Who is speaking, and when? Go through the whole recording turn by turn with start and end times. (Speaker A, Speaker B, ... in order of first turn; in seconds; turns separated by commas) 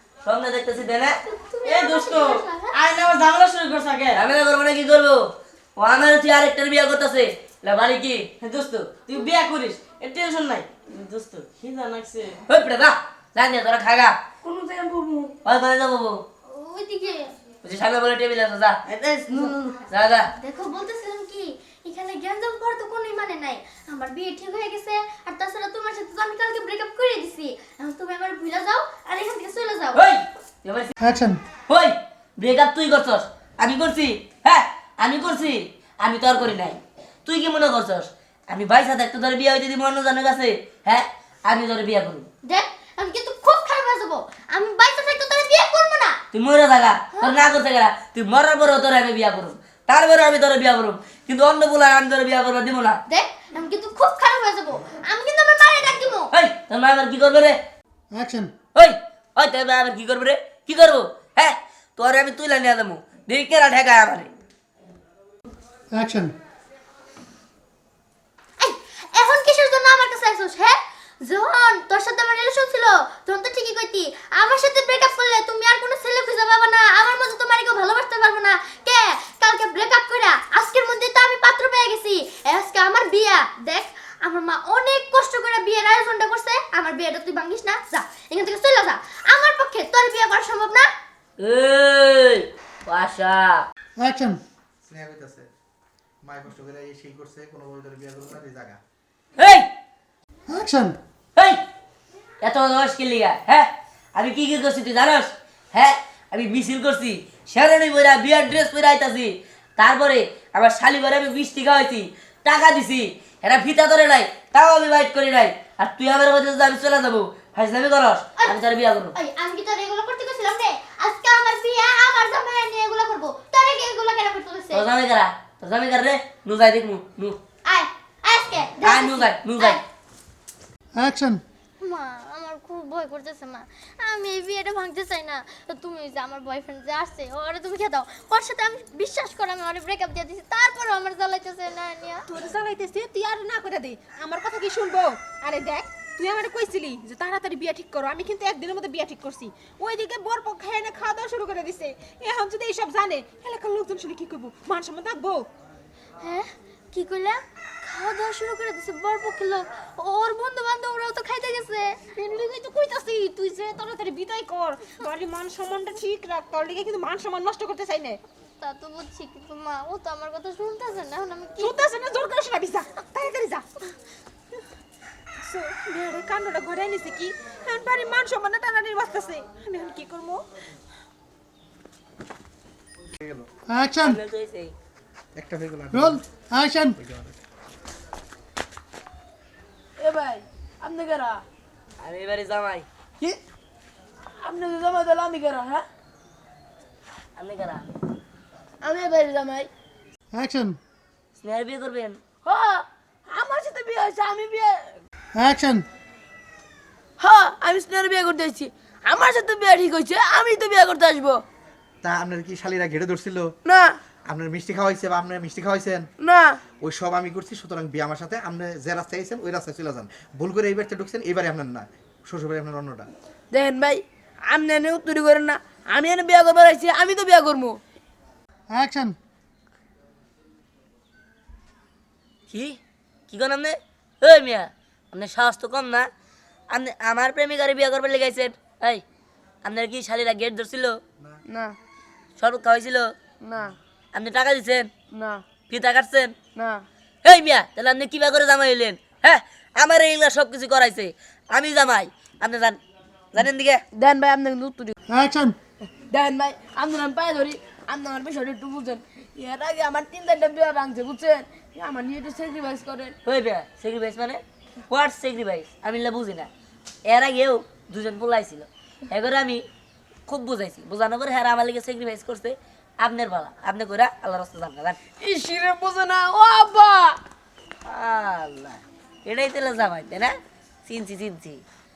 Speaker A: 0.2-1.2, Speaker B: 1.2-2.8, Speaker A: 1.7-2.4, Speaker C: 2.7-4.2, Speaker A: 4.1-9.8, Speaker C: 9.5-12.4, Speaker A: 12.5-14.2, Speaker D: 14.4-15.3, Speaker A: 15.4-16.2, Speaker B: 16.4-17.3, Speaker A: 17.6-18.8, Speaker A: 19.9-20.3, Speaker B: 20.4-30.0, Speaker A: 29.9-30.9, Speaker E: 31.0-31.4, Speaker A: 31.7-42.3, Speaker B: 42.4-46.2, Speaker A: 46.3-53.0, Speaker B: 47.1-47.4, Speaker B: 53.1-56.3, Speaker A: 56.3-57.6, Speaker E: 58.1-58.5, Speaker A: 58.8-64.3, Speaker E: 65.9-66.3, Speaker B: 68.6-90.9, Speaker A: 91.4-93.7, Speaker E: 94.0-94.4, Speaker F: 94.8-95.5, Speaker F: 96.2-98.8, Speaker A: 99.4-99.7, Speaker E: 100.5-101.0, Speaker A: 102.4-119.2, Speaker B: 119.2-124.8, Speaker A: 124.7-127.4, Speaker B: 127.7-129.8, Speaker A: 128.8-129.8, Speaker E: 130.9-131.4, Speaker B: 131.8-142.3, Speaker G: 142.3-155.5, Speaker B: 156.2-162.0, Speaker G: 162.2-168.2, Speaker B: 168.6-171.7, Speaker G: 171.6-173.7, Speaker G: 175.4-180.4, Speaker F: 183.2-183.5, Speaker E: 183.7-184.2, Speaker A: 184.0-184.7, Speaker F: 185.4-186.2, Speaker E: 185.9-187.0, Speaker F: 186.9-187.4, Speaker D: 190.0-191.4, Speaker A: 192.0-192.9, Speaker D: 194.4-195.8, Speaker A: 197.4-197.9, Speaker D: 198.8-199.7, Speaker E: 200.3-200.8, Speaker A: 201.4-202.2, Speaker D: 203.3-204.7, Speaker E: 205.3-205.9, Speaker D: 207.2-211.3, Speaker F: 212.0-213.5, Speaker F: 214.3-216.1, Speaker F: 216.8-223.1, Speaker D: 223.5-224.0, Speaker D: 224.5-227.7, Speaker E: 228.7-229.2, Speaker A: 232.5-232.8, Speaker A: 233.3-236.1, Speaker A: 236.7-239.0, Speaker A: 239.6-241.0, Speaker A: 242.4-243.1, Speaker D: 243.4-243.7, Speaker A: 244.1-244.9, Speaker A: 245.7-246.3, Speaker A: 247.2-252.8, Speaker A: 253.3-253.8, Speaker D: 253.9-254.9, Speaker E: 255.1-255.6, Speaker D: 256.1-263.1, Speaker A: 263.2-266.5, Speaker A: 267.1-269.6, Speaker A: 270.3-275.0, Speaker D: 275.2-277.0, Speaker A: 277.9-280.4, Speaker A: 280.9-281.6